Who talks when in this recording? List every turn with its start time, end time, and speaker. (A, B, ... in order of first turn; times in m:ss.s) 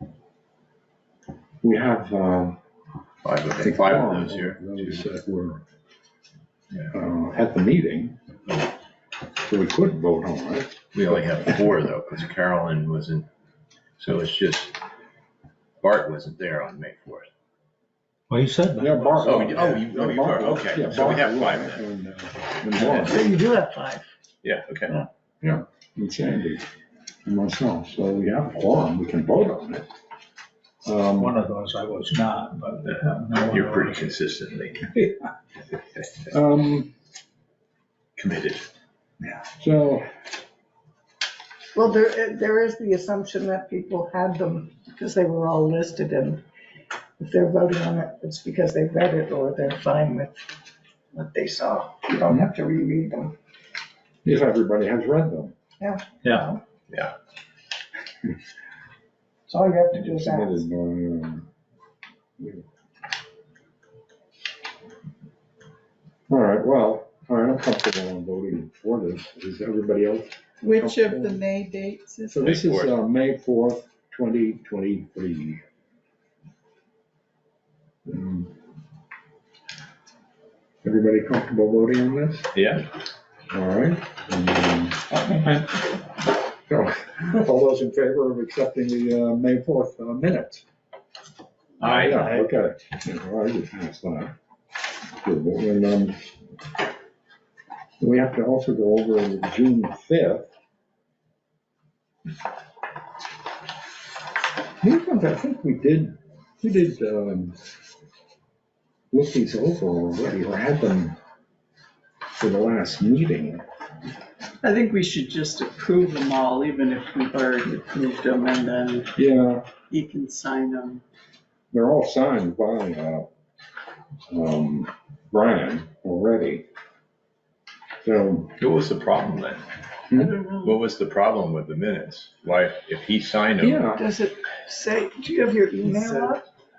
0:01.6-0:02.6 A
0:03.2-0:05.0 B
0:03.6-0:05.6 A
0:06.9-0:08.2 A
0:09.4-0:11.4 A
0:10.9-0:13.3 B
0:14.0-0:14.8 B
0:15.8-0:17.3 B
0:18.3-0:19.1 C
0:18.8-0:23.3 A
0:19.2-0:21.8 B
0:22.8-0:24.1 D
0:24.4-0:24.9 B
0:25.4-0:26.7 A
0:27.3-0:29.9 A
0:30.8-0:31.4 A
0:31.2-0:34.0 C
0:33.4-0:35.0 B
0:36.3-0:36.9 A
0:38.2-0:38.7 B
0:39.6-0:40.0 A
0:41.7-0:46.4 D
0:47.2-0:50.4 D
0:51.1-0:53.3 D
0:54.2-0:55.5 A
0:55.8-0:56.6 D
0:59.5-1:00.6 D
0:59.9-1:01.5 A
1:02.4-1:02.6 A
1:06.3-1:11.4 A
1:10.6-1:12.6 E
1:12.3-1:15.6 A
1:12.4-1:12.9 B
1:18.1-1:18.5 A
1:20.8-1:22.5 A
1:22.5-1:22.9 B
1:23.5-1:25.9 A
1:25.1-1:25.4 D
1:26.6-1:30.6 A
1:31.8-1:32.4 B
1:31.8-1:34.3 A
1:35.2-1:36.3 A
1:38.0-1:40.5 A
1:44.8-1:47.6 A
1:49.1-1:51.2 A
1:52.4-1:53.6 A
1:54.6-1:59.2 E
1:59.2-1:59.7 A
1:59.9-2:01.0 E
2:01.7-2:03.3 A
2:04.3-2:06.7 A
2:08.0-2:08.6 A
2:08.6-2:09.6 B
2:10.1-2:10.8 E
2:10.6-2:13.9 B
2:13.6-2:14.0 A
2:14.0-2:16.4 D